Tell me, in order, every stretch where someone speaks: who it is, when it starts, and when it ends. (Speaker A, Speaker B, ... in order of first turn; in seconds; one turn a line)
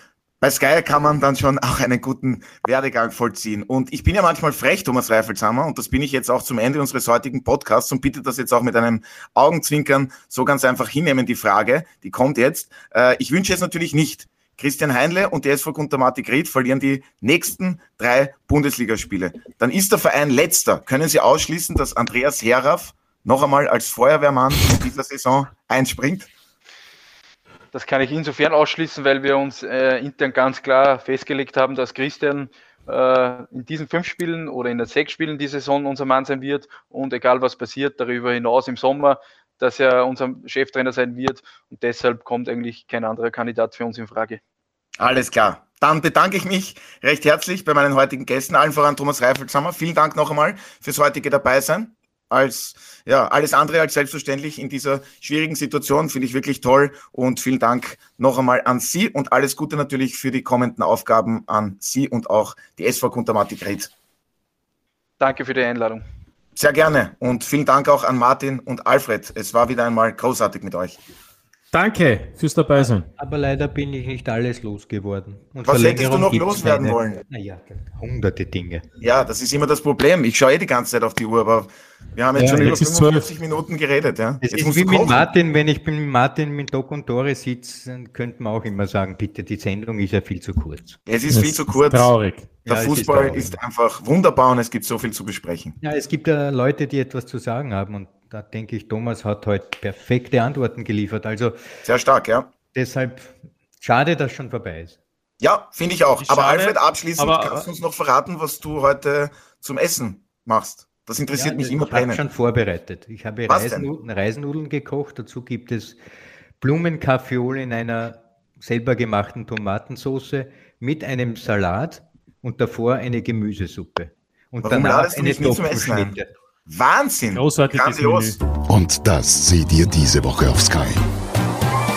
Speaker A: 0.4-26.3
Speaker B: 27.7-44.4
Speaker A: 45.0-63.9
Speaker B: 65.2-66.0
Speaker A: 66.5-71.0
Speaker C: 71.7-73.1
Speaker D: 72.7-78.8
Speaker A: 75.6-77.2
Speaker A: 79.0-85.2
Speaker C: 82.3-83.3
Speaker D: 84.4-91.0
Speaker A: 91.1-92.1
Speaker C: 91.3-92.6
Speaker D: 92.7-93.5
Speaker A: 92.7-95.8
Speaker D: 95.8-101.6
Speaker A: 101.8-102.5
Speaker D: 102.7-105.0
Speaker A: 105.4-112.2
Speaker C: 106.2-107.7
Speaker D: 111.3-116.0
Speaker A: 113.5-113.9
Speaker D: 116.6-126.3
Speaker A: 124.6-126.2
Speaker A: 126.7-128.4
Speaker C: 127.3-128.4
Speaker E: 128.7-131.0